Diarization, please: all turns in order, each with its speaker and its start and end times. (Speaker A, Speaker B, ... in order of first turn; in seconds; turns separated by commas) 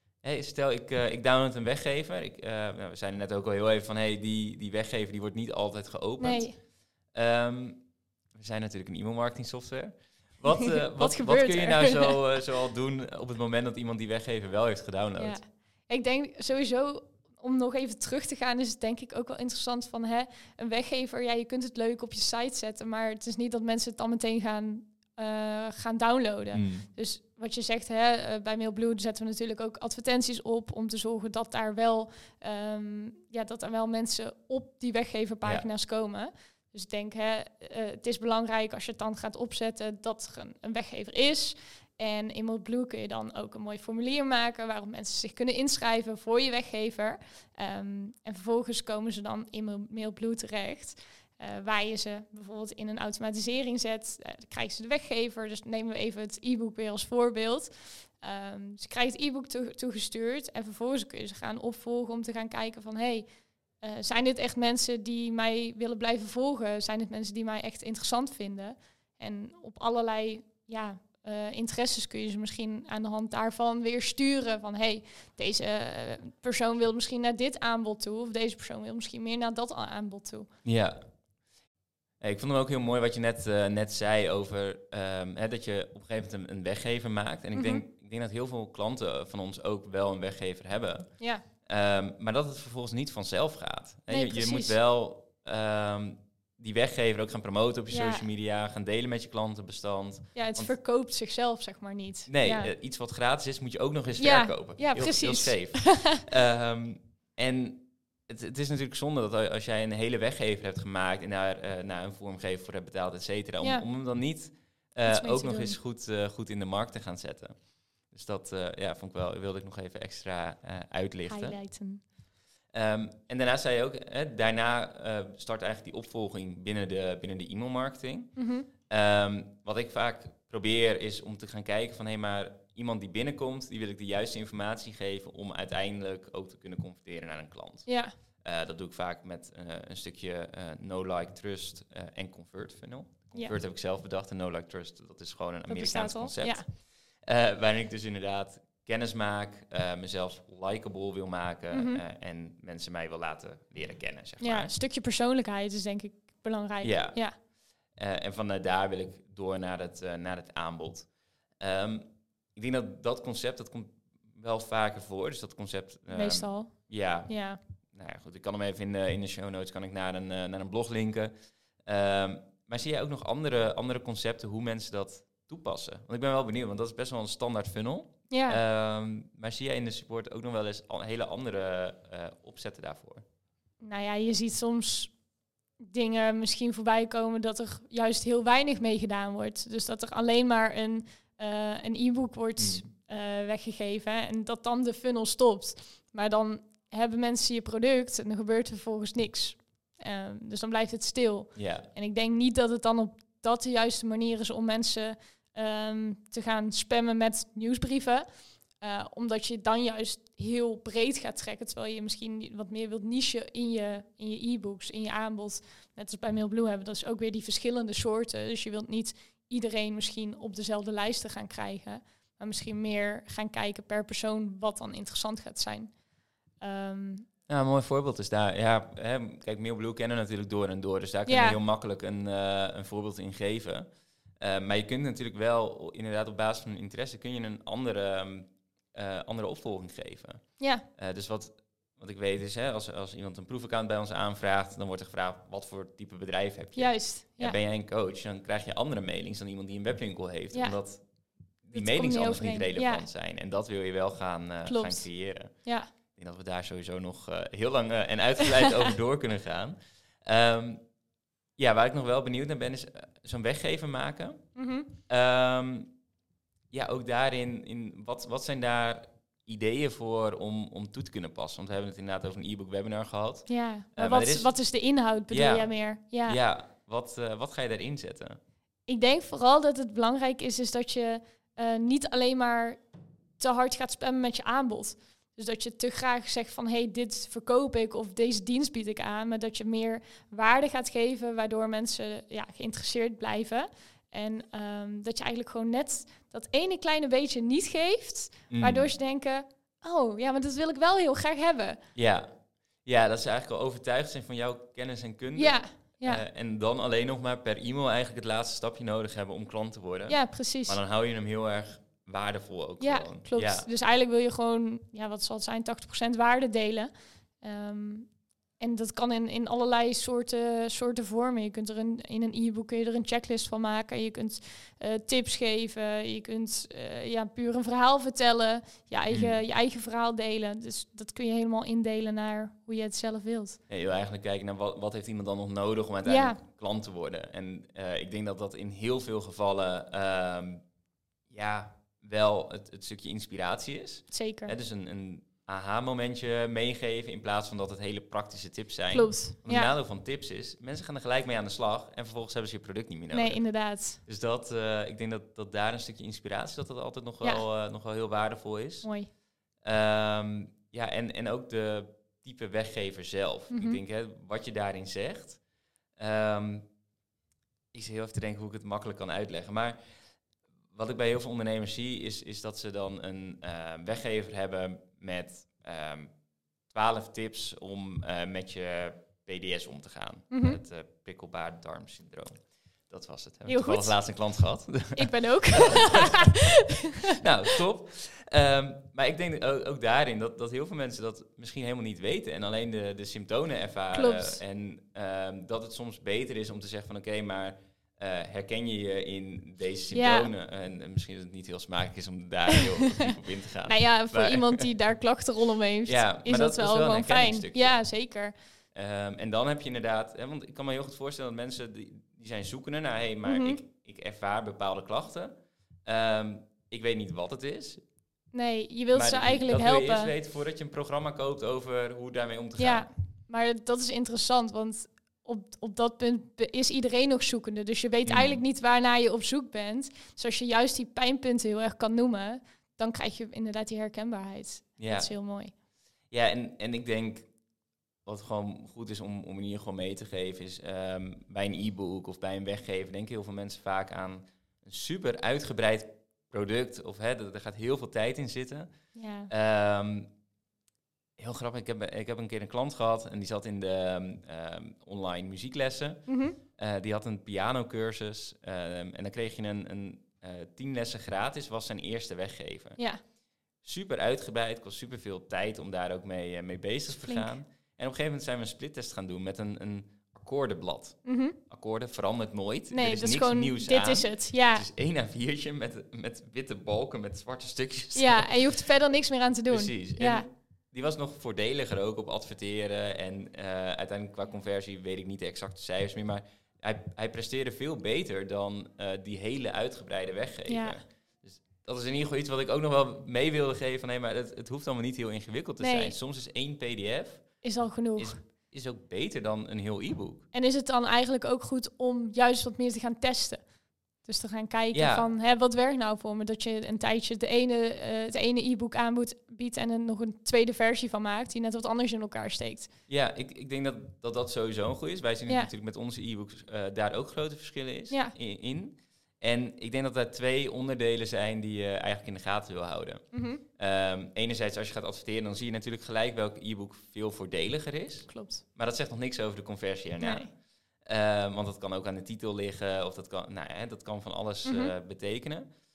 Speaker A: 0.2-6.6, Speaker B: 6.2-6.6, Speaker A: 7.1-15.4, Speaker B: 10.9-12.2, Speaker B: 15.2-63.3, Speaker A: 26.5-26.9, Speaker B: 63.8-80.5, Speaker A: 80.6-81.1, Speaker A: 82.2-100.7, Speaker B: 87.5-87.8, Speaker B: 94.1-94.7, Speaker B: 97.9-98.2, Speaker B: 100.3-102.7, Speaker A: 102.3-121.6, Speaker B: 104.2-106.2, Speaker B: 113.6-113.8, Speaker B: 115.0-115.8, Speaker B: 121.3-122.0, Speaker A: 122.7-128.3, Speaker B: 128.3-128.7, Speaker A: 128.9-154.7, Speaker B: 137.8-138.1, Speaker B: 145.7-146.7, Speaker B: 151.7-152.0, Speaker B: 154.4-157.3, Speaker A: 156.8-157.3, Speaker A: 157.9-171.3, Speaker B: 166.1-167.6, Speaker A: 171.8-183.2, Speaker B: 178.3-178.6, Speaker B: 183.8-185.1, Speaker B: 185.8-225.9, Speaker A: 192.6-192.9, Speaker A: 201.5-201.9, Speaker B: 226.6-227.2, Speaker A: 227.5-233.9, Speaker B: 231.3-231.6, Speaker A: 234.4-260.8, Speaker B: 240.6-240.8, Speaker B: 246.7-247.6, Speaker B: 250.5-250.8, Speaker B: 251.7-253.1, Speaker B: 254.7-255.9, Speaker A: 261.6-264.5, Speaker B: 264.5-264.9, Speaker A: 265.1-265.9, Speaker A: 266.7-274.6, Speaker B: 273.5-276.4, Speaker A: 275.3-278.4, Speaker B: 278.9-282.8, Speaker B: 283.4-301.8, Speaker A: 298.5-298.9, Speaker A: 301.9-313.7, Speaker B: 305.3-306.2, Speaker B: 310.1-310.8, Speaker B: 312.8-333.6, Speaker A: 329.1-329.4, Speaker A: 333.7-340.6, Speaker B: 336.0-336.4, Speaker A: 341.3-353.4, Speaker B: 344.1-344.5, Speaker B: 348.9-349.7, Speaker B: 353.1-354.0, Speaker A: 354.0-358.9, Speaker B: 358.8-359.1, Speaker A: 359.6-365.4, Speaker B: 363.5-363.8, Speaker A: 366.0-366.7, Speaker A: 367.7-369.8, Speaker A: 370.7-376.1, Speaker A: 376.6-386.3, Speaker B: 380.3-380.6, Speaker B: 383.5-384.0, Speaker B: 384.9-386.7, Speaker A: 387.2-404.6, Speaker B: 393.9-394.4, Speaker B: 399.9-400.3, Speaker B: 403.6-408.3, Speaker A: 405.9-407.8, Speaker A: 408.7-415.3, Speaker B: 413.2-413.6, Speaker A: 415.8-417.8, Speaker B: 418.3-420.1, Speaker A: 418.9-422.9, Speaker B: 422.6-435.5, Speaker A: 428.0-428.4, Speaker A: 434.8-435.1, Speaker A: 436.1-437.3, Speaker A: 438.0-448.7, Speaker B: 448.9-449.3, Speaker A: 449.3-450.1, Speaker A: 451.2-462.8, Speaker B: 456.1-456.4, Speaker A: 463.6-478.4, Speaker B: 466.9-467.3, Speaker B: 471.0-471.4, Speaker B: 472.7-474.6, Speaker B: 477.9-480.3, Speaker A: 479.5-497.4, Speaker B: 490.5-490.8, Speaker B: 495.6-495.9, Speaker B: 497.4-498.2, Speaker A: 497.9-500.2, Speaker B: 500.3-503.4, Speaker B: 504.0-512.7, Speaker A: 504.7-505.1, Speaker A: 512.9-530.3, Speaker B: 517.9-518.1, Speaker B: 523.1-523.4, Speaker B: 528.1-528.4, Speaker B: 530.0-530.3, Speaker A: 530.8-535.5, Speaker B: 534.4-534.7